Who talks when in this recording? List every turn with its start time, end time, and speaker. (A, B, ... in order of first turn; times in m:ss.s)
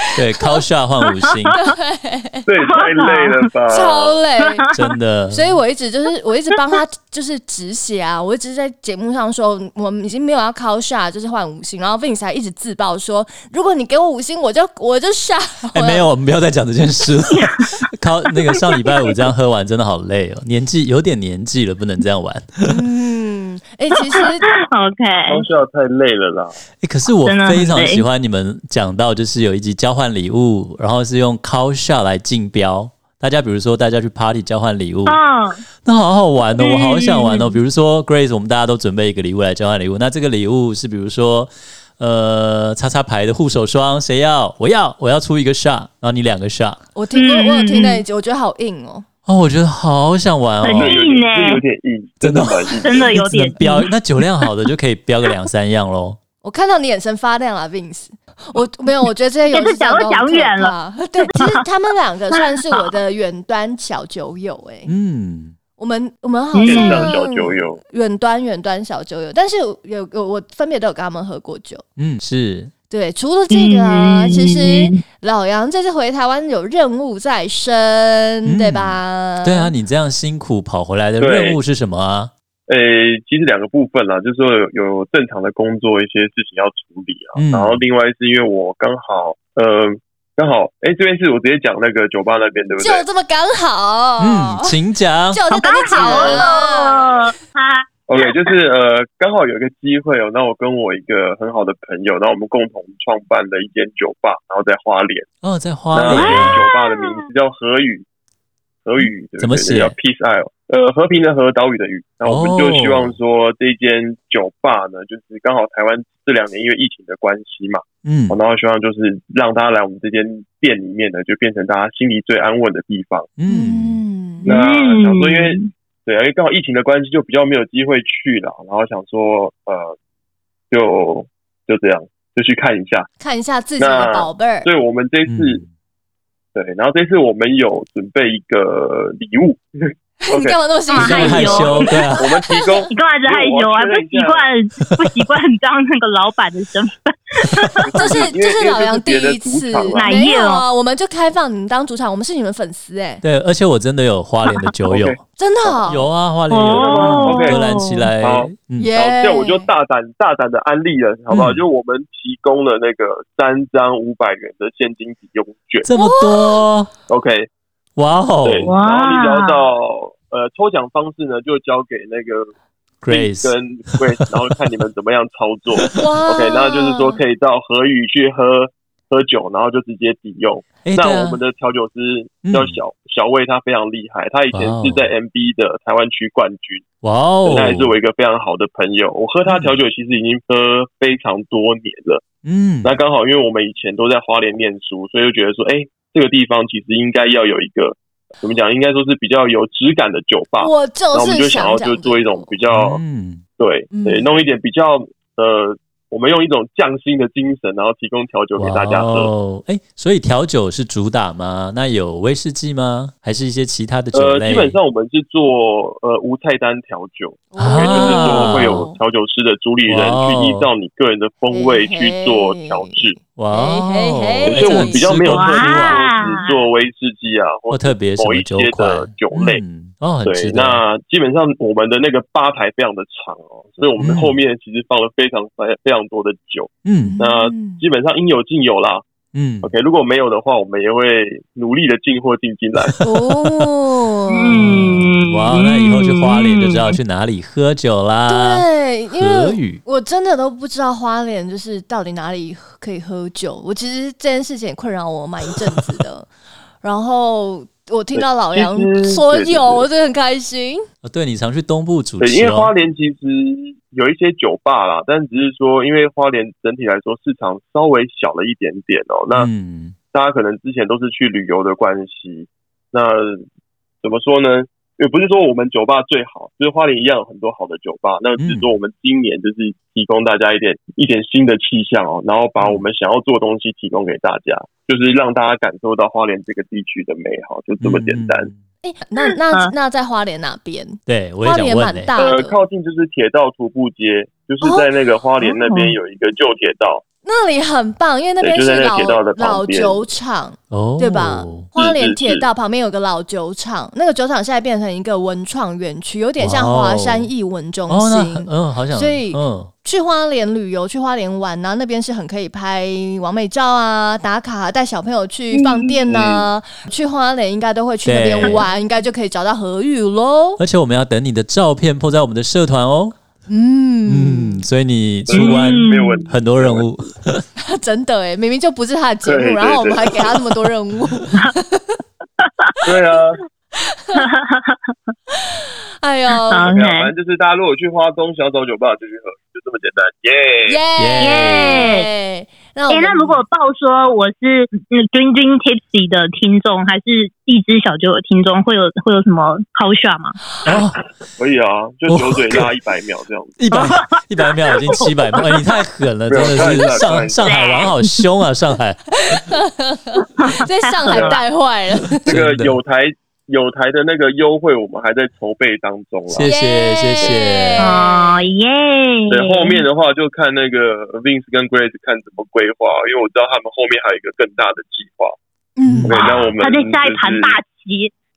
0:00.1-0:01.6 A
0:01.6-0:02.5 B
0:02.4-0:04.2 C
0:02.6-0:03.4 D
0:03.7-0:04.6 B
0:04.7-0:05.5 A
0:05.3-0:16.1 B
0:15.7-0:22.7 A
0:22.7-0:24.4 B
0:24.1-0:25.4 D
0:25.3-0:26.6 C
0:26.8-0:35.2 A
0:27.2-0:28.0 D
0:35.1-0:35.6 D
0:35.8-0:46.8 A
0:36.6-0:37.6 D
0:46.9-0:49.0 B
0:47.1-0:48.0 D
0:49.2-0:51.0 A
0:50.6-0:51.6 D
0:50.8-0:53.1 C
0:52.2-0:56.2 A
0:52.8-0:53.9 D
0:56.4-1:04.9 B
0:59.5-1:01.6 D
1:04.8-1:05.6 A
1:05.8-1:11.8 B
1:06.5-1:07.1 D
1:06.6-1:07.8 C
1:12.0-1:12.7 A
1:12.9-1:19.7 B
1:13.5-1:15.0 D
1:18.4-1:22.3 A
1:21.2-1:21.6 C
1:22.7-1:33.0 C
1:27.3-1:27.8 A
1:32.8-1:34.7 B
1:34.2-1:36.3 A
1:35.3-1:37.1 B
1:35.6-1:37.9 D
1:38.1-1:45.3 C
1:45.4-1:46.6 A
1:45.9-1:48.0 C
1:46.1-1:47.2 D
1:48.8-2:03.3 C
1:49.4-1:49.9 A
1:52.2-1:53.2 A
1:58.0-1:58.4 A
2:03.4-2:04.0 A
2:03.5-2:04.5 B
2:04.4-2:10.0 C
2:04.4-2:05.7 D
2:10.7-2:13.1 C
2:13.2-2:14.7 B
2:13.8-2:15.6 C
2:15.3-2:15.7 A
2:16.5-2:21.6 C
2:20.2-2:22.9 B
2:20.9-2:21.9 D
2:20.9-2:22.2 A
2:22.1-2:24.5 C
2:22.9-2:28.2 D
2:27.8-2:30.0 C
2:27.9-2:33.2 B
2:29.9-2:30.6 D
2:33.2-2:35.2 A
2:34.9-2:35.8 C
2:35.4-2:36.1 B
2:35.8-2:38.9 A
2:36.5-2:38.1 D
2:36.7-2:37.6 C
2:38.2-2:45.9 C
2:38.8-2:39.6 B
2:41.3-2:41.6 A
2:45.8-2:46.9 A
2:45.9-2:46.6 B
2:47.1-2:47.5 C
2:48.0-2:48.7 A
2:48.4-2:52.5 C
2:48.7-2:49.6 D
2:53.0-2:54.0 A
2:53.1-3:06.8 C
2:55.9-2:57.2 B
3:00.8-3:01.4 A
3:02.4-3:02.8 A
3:04.5-3:05.1 A
3:07.0-3:07.9 A
3:07.4-3:12.2 C
3:09.4-3:09.8 A
3:12.4-3:13.0 A
3:12.8-3:23.0 C
3:20.6-3:22.5 B
3:22.7-3:23.4 A
3:23.6-3:29.3 C
3:23.9-3:24.3 B
3:28.6-3:34.8 A
3:34.1-3:43.2 C
3:37.5-3:39.0 B
3:37.6-3:38.9 A
3:39.9-3:40.7 A
3:41.5-3:45.1 B
3:43.4-3:46.2 A
3:44.4-3:49.6 C
3:45.3-3:46.6 D
3:47.7-3:50.8 A
3:50.2-3:59.0 C
3:54.0-3:54.4 A
3:56.8-3:57.2 A
3:57.0-3:57.8 B
3:59.3-3:59.7 A
3:59.6-4:03.0 C
4:02.9-4:03.7 A
4:03.0-4:04.8 B
4:04.3-4:07.0 D
4:04.5-4:08.6 A
4:08.3-4:16.3 B
4:09.2-4:09.8 A
4:16.8-4:20.8 B
4:18.1-4:19.9 C
4:21.0-4:22.7 A
4:22.2-4:29.5 C
4:29.3-4:30.0 A
4:30.1-4:33.4 C
4:34.0-4:48.5 C
4:38.4-4:38.7 A
4:42.6-4:42.8 A
4:47.8-4:48.6 A
4:48.8-4:52.6 B
4:51.0-4:52.1 A
4:52.2-4:57.0 C
4:54.6-4:54.9 B
4:55.4-4:56.0 B
4:57.2-5:20.6 B
4:58.4-5:00.1 C
5:00.7-5:01.6 A
5:01.8-5:02.4 C
5:06.4-5:07.3 A
5:07.9-5:09.7 A
5:15.5-5:15.9 D
5:16.0-5:16.5 C
5:18.0-5:18.7 A
5:20.6-5:23.1 A
5:23.5-5:24.6 B
5:24.0-5:27.5 A
5:25.3-5:27.1 C
5:25.3-5:26.3 D
5:27.7-5:32.0 B
5:29.2-5:30.4 C
5:32.4-5:32.7 D
5:32.8-5:33.4 C
5:33.8-5:34.3 B
5:34.1-5:34.9 D
5:35.4-5:36.7 B
5:36.5-5:37.1 D
5:36.7-5:40.8 C
5:40.6-5:43.4 B
5:41.0-5:41.9 A
5:41.2-5:42.1 D
5:42.9-5:50.4 D
5:50.6-5:51.0 A
5:51.4-5:53.6 C
5:52.1-5:52.7 A
5:53.6-5:59.0 A
5:53.7-5:55.1 D
5:56.3-5:57.7 C
5:57.4-5:58.1 D
5:59.2-6:02.3 B
6:00.4-6:01.4 D
6:01.1-6:01.4 C
6:02.2-6:02.8 A
6:02.2-6:06.5 C
6:06.3-6:07.9 A
6:06.4-6:08.4 B
6:07.8-6:09.8 D
6:09.3-6:15.4 C
6:15.8-6:16.2 B
6:15.8-6:16.5 A
6:16.0-6:17.5 C
6:16.6-6:18.1 D